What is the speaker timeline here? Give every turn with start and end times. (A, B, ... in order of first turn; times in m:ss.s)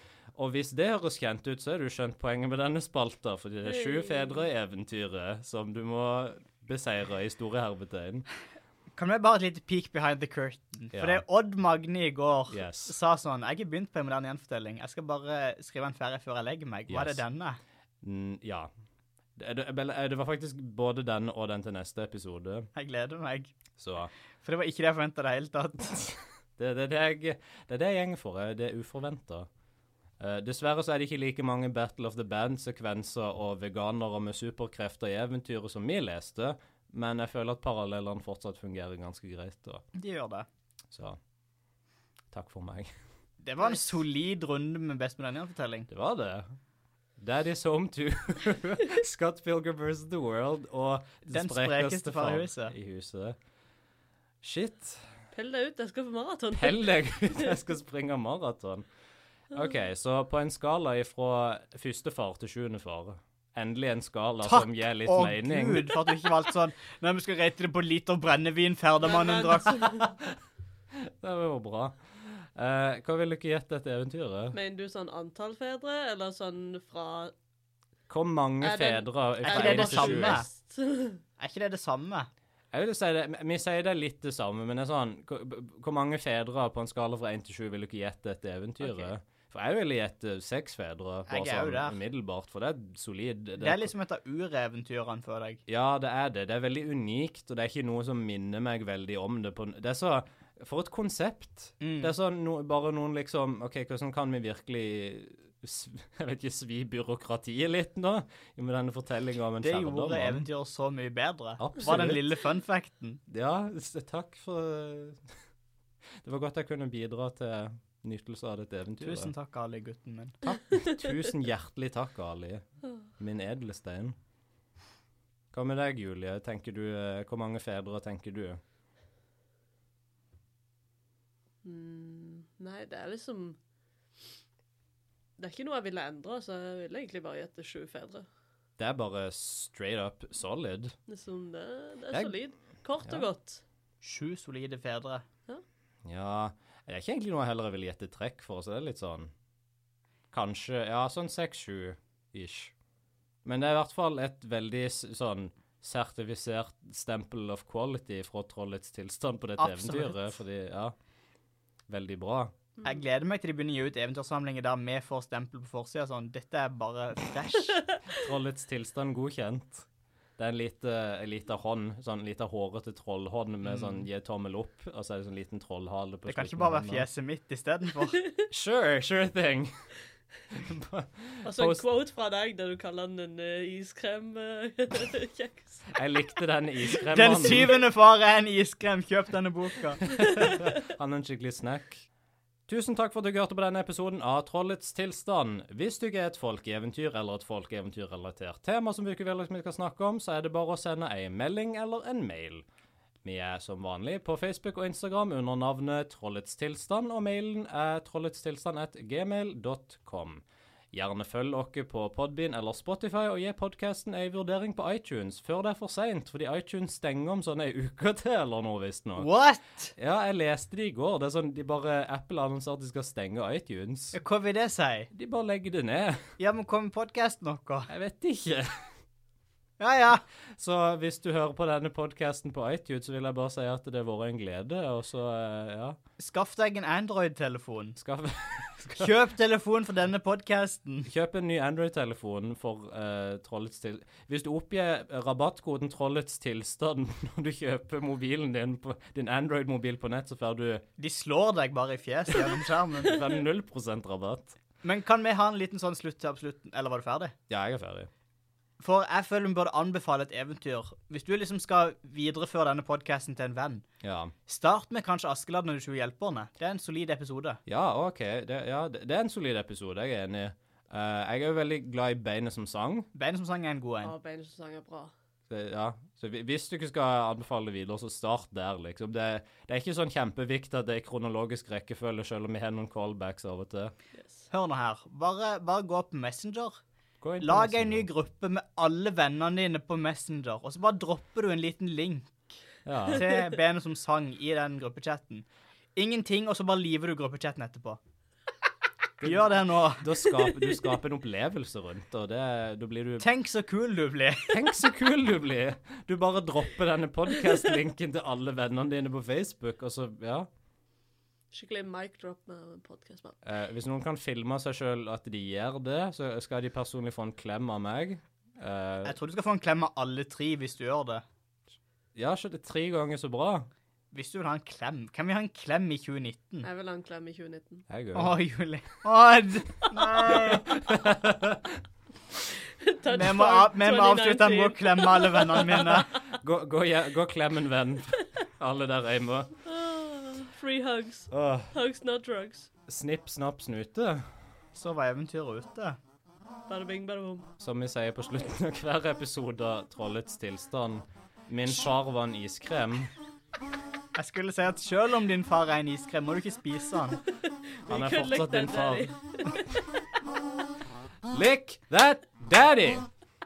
0:00.4-0:08.3 A
0:03.6-0:04.5 B
0:09.0-0:17.6 C
0:10.9-0:11.2 A
0:12.5-0:13.0 A
0:16.9-0:17.2 A
0:18.0-0:18.7 A
0:19.4-0:22.7 A
0:22.8-0:23.6 C
0:23.8-0:24.1 A
0:24.4-0:26.1 C
0:26.6-0:29.5 A
0:30.2-0:39.8 A
0:40.0-0:40.5 C
0:40.9-0:41.2 A
0:42.3-0:42.9 A
0:43.4-0:45.9 C
0:45.9-0:46.5 A
0:47.2-0:53.4 A
0:51.3-0:52.7 C
0:54.4-0:55.1 A
0:55.3-0:57.6 B
0:56.6-0:58.8 A
0:59.5-1:05.9 A
1:04.4-1:10.0 C
1:09.1-1:10.0 B
1:09.9-1:10.4 A
1:11.0-1:14.6 A
1:14.5-1:17.3 B
1:18.1-1:20.4 A
1:18.6-1:21.2 B
1:19.5-1:20.5 C
1:21.4-1:22.3 C
1:22.7-1:33.9 A
1:28.8-1:29.1 B
1:31.3-1:32.0 C
1:33.6-1:35.6 C
1:35.7-1:50.5 A
1:41.8-1:42.1 C
1:49.6-1:53.2 C
1:51.6-1:52.3 A
1:53.3-1:55.2 A
1:56.2-1:59.3 A
1:59.0-2:00.4 C
2:00.4-2:02.6 A
2:03.2-2:04.2 A
2:05.5-2:08.6 A
2:11.6-2:13.6 B
2:15.4-2:18.3 B
2:18.8-2:21.0 A
2:21.1-2:23.6 B
2:22.1-2:22.4 A
2:23.0-2:23.3 A
2:24.0-2:25.2 C
2:26.1-2:29.3 A
2:30.3-2:32.7 A
2:33.4-2:41.0 A
2:39.6-2:40.4 C
2:41.9-2:42.6 A
2:42.8-2:43.0 B
2:42.8-2:47.8 C
2:48.1-2:49.9 A
2:50.4-2:57.1 A
2:53.6-2:54.1 C
2:56.3-2:58.2 C
2:58.5-2:59.7 A
3:00.5-3:01.8 A
3:01.4-3:06.0 B
3:05.9-3:07.8 A
3:07.1-3:10.0 C
3:10.1-3:12.1 A
3:10.3-3:10.6 B
3:12.7-3:22.6 A
3:23.2-3:39.3 A
3:39.2-3:39.9 C
3:40.0-3:44.2 A
3:44.1-3:45.1 C
3:45.1-3:46.2 A
3:46.4-3:47.9 C
3:47.9-3:48.7 A
3:49.8-3:50.2 C
3:50.6-3:56.0 A
3:56.2-3:58.0 C
3:58.0-3:59.1 A
3:58.8-4:01.1 C
4:01.1-4:10.8 A
4:11.0-4:13.2 C
4:13.0-4:14.6 A
4:14.8-4:17.3 C
4:17.5-4:18.1 A
4:18.8-4:23.8 C
4:24.0-4:24.3 A
4:24.5-4:27.6 C
4:27.7-4:33.1 A
4:33.2-4:34.1 C
4:34.0-4:35.1 B
4:35.5-4:43.9 A
4:44.2-4:44.5 B
4:44.5-4:46.8 C
4:47.2-4:48.1 A
4:47.4-4:52.6 C
4:52.9-4:53.2 A
4:53.1-4:58.0 C
4:59.2-5:03.3 A
4:59.2-5:00.0 C
5:03.2-5:04.6 C
5:04.5-5:10.5 A
5:11.5-5:13.4 B
5:13.4-5:19.2 A
5:19.0-5:21.2 C
5:22.2-5:23.7 A
5:24.1-5:26.7 C
5:26.6-5:27.9 B
5:27.9-5:28.3 A
5:28.2-5:30.7 C
5:29.8-5:30.6 B
5:30.4-5:31.8 A
5:32.8-5:36.2 B
5:33.1-5:36.1 C
5:36.1-5:39.5 A
5:39.6-5:42.7 B
5:41.3-5:41.7 A
5:42.9-5:44.2 A
5:44.8-5:46.0 C
5:46.7-5:47.5 B
5:47.6-5:53.1 A
5:54.2-5:57.2 C
5:57.8-5:59.9 B
5:57.9-5:59.1 A
6:01.3-6:03.1 A